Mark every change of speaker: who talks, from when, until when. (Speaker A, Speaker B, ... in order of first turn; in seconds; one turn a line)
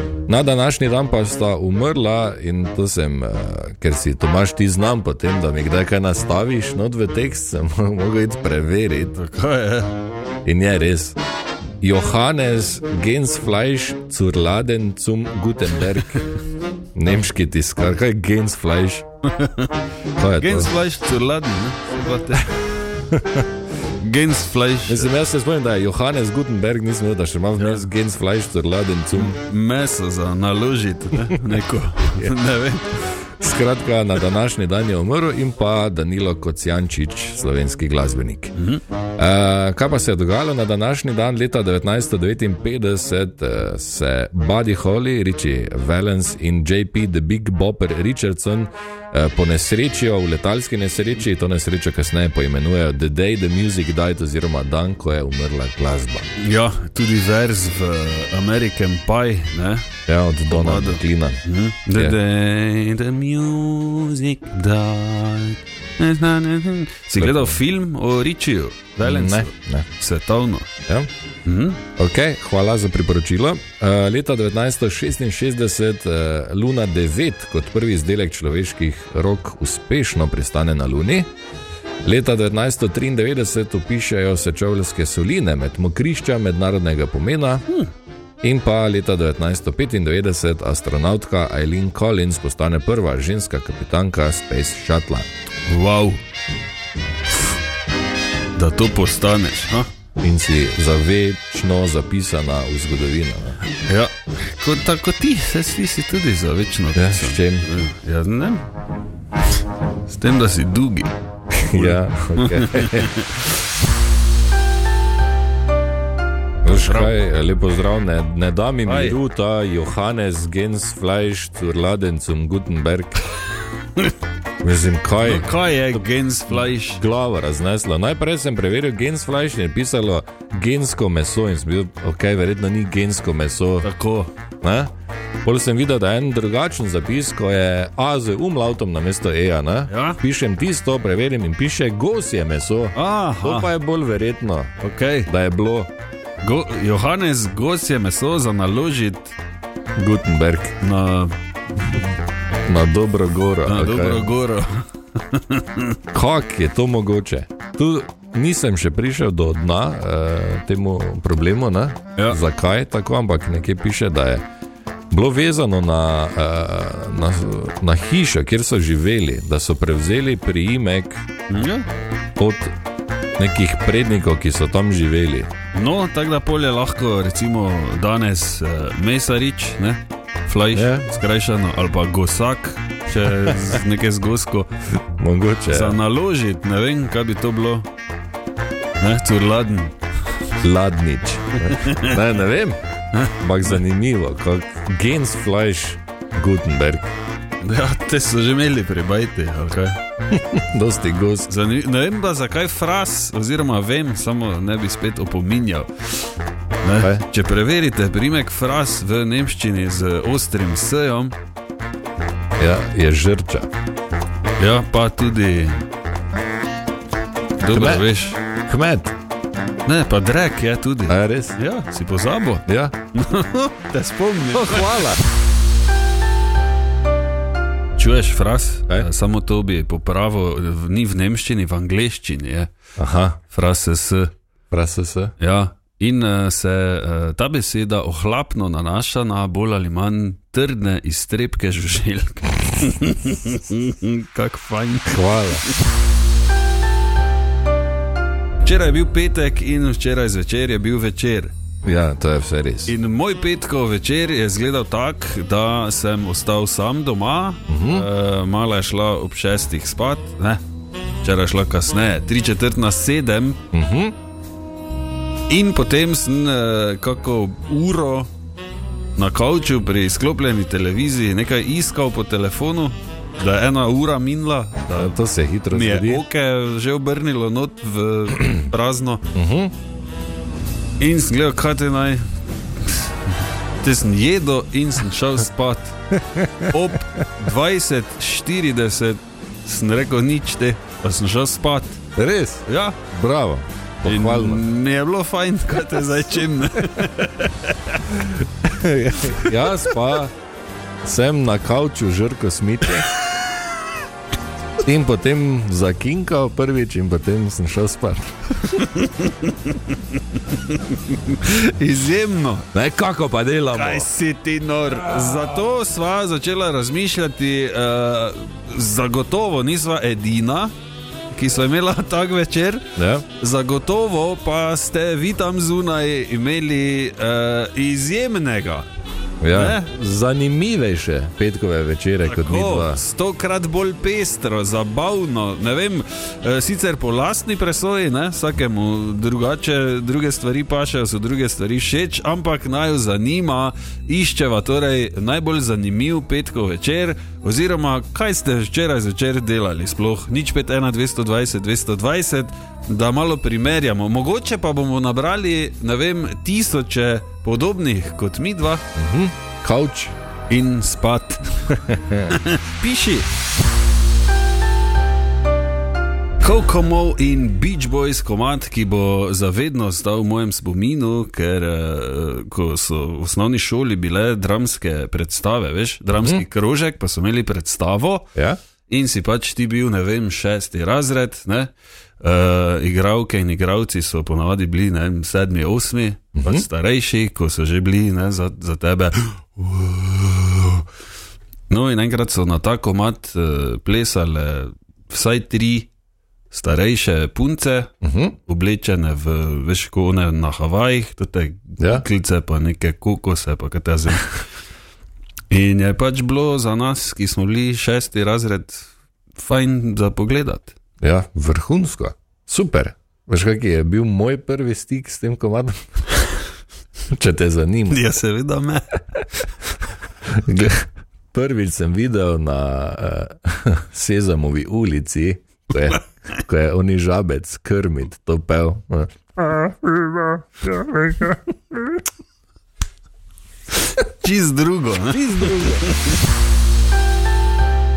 Speaker A: 0.3-9.2
Speaker B: 9.1-9.9
Speaker A: 10.4-11.2
Speaker A: 11.8-16.3
Speaker A: 16.9-19.0
Speaker B: 19.4-19.7
Speaker A: 20.1-20.7
Speaker B: 20.4-22.7
Speaker A: 23.1-23.4
Speaker B: 24.0-25.1
Speaker A: 24.9-29.4
Speaker B: 27.6-27.8
Speaker B: 29.2-33.1
Speaker A: 33.4-38.5
Speaker B: 38.5-38.8
Speaker A: 39.2-56.3
Speaker B: 56.4-59.9
Speaker A: 60.1-61.4
Speaker B: 60.5-70.7
Speaker A: 67.1-67.6
Speaker A: 69.0-69.9
Speaker B: 71.4-71.8
Speaker A: 72.0-81.3
Speaker A: 82.0-87.7
Speaker A: 88.4-95.3
Speaker B: 95.7-96.2
Speaker B: 98.5-99.8
Speaker A: 100.2-103.6
Speaker B: 103.8-108.6
Speaker A: 106.9-107.7
Speaker B: 110.1-111.1
Speaker A: 111.5-113.1
Speaker B: 111.7-113.5
Speaker A: 116.6-123.2
Speaker B: 116.7-117.1
Speaker B: 118.8-119.2
Speaker A: 124.6-125.5
Speaker B: 125.2-127.0
Speaker A: 126.5-133.9
Speaker B: 133.8-134.3
Speaker A: 134.6-134.9
Speaker A: 135.4-144.7
Speaker B: 139.9-140.2
Speaker B: 142.9-143.7
Speaker B: 144.8-145.3
Speaker A: 145.3-145.9
Speaker B: 146.4-149.3
Speaker A: 149.9-150.8
Speaker B: 150.8-151.3
Speaker A: 152.6-154.3
Speaker B: 153.6-156.0
Speaker A: 156.1-164.4
Speaker A: 165.1-171.2
Speaker B: 171.5-171.9
Speaker A: 172.4-172.7
Speaker A: 173.4-175.5
Speaker B: 175.7-184.7
Speaker A: 180.7-181.1
Speaker A: 185.2-186.0
Speaker B: 185.7-187.9
Speaker B: 189.0-189.9
Speaker A: 190.6-192.8
Speaker B: 191.7-192.2
Speaker A: 193.3-197.1
Speaker B: 197.6-200.0
Speaker A: 200.3-201.5
Speaker B: 201.5-206.3
Speaker B: 206.8-211.3
Speaker A: 207.0-207.2
Speaker A: 212.6-213.7
Speaker B: 214.6-215.8
Speaker B: 217.6-218.4
Speaker A: 217.7-218.1
Speaker A: 218.7-219.1
Speaker B: 219.8-225.1
Speaker A: 221.1-221.6
Speaker A: 222.7-222.9
Speaker A: 224.5-225.2
Speaker B: 227.9-232.7
Speaker A: 233.0-233.4
Speaker B: 233.5-234.3
Speaker A: 234.7-235.3
Speaker B: 235.4-245.3
Speaker A: 245.1-245.7
Speaker B: 248.6-251.5
Speaker A: 251.8-252.9
Speaker B: 252.8-260.6
Speaker A: 257.7-258.1
Speaker B: 261.2-263.6
Speaker A: 263.7-264.1
Speaker B: 265.5-268.3
Speaker B: 269.1-275.1
Speaker A: 274.9-276.2
Speaker B: 275.7-279.2
Speaker A: 279.3-279.7
Speaker B: 281.0-282.2
Speaker B: 282.8-285.9
Speaker A: 286.1-286.7
Speaker B: 286.7-292.0
Speaker A: 292.1-294.6
Speaker B: 292.6-293.0
Speaker B: 294.0-298.2
Speaker A: 298.2-300.3
Speaker B: 299.3-299.7
Speaker A: 301.0-303.1
Speaker A: 304.8-308.3
Speaker B: 308.6-312.7
Speaker A: 312.7-314.1
Speaker B: 313.7-320.7
Speaker B: 321.3-328.9
Speaker A: 322.9-323.2
Speaker A: 329.4-333.0
Speaker B: 329.5-329.9
Speaker B: 332.2-358.8
Speaker A: 358.9-360.1
Speaker B: 360.5-363.3
Speaker A: 361.8-362.4
Speaker B: 366.4-378.3
Speaker B: 378.9-390.8
Speaker A: 386.4-386.6
Speaker B: 391.7-395.9
Speaker B: 396.5-397.9
Speaker A: 398.0-398.4
Speaker B: 398.5-404.4
Speaker A: 401.8-402.1
Speaker B: 405.5-410.7
Speaker A: 411.0-415.8
Speaker A: 417.1-418.1
Speaker B: 417.9-419.4
Speaker A: 420.3-431.4
Speaker B: 433.9-436.1
Speaker A: 435.1-435.9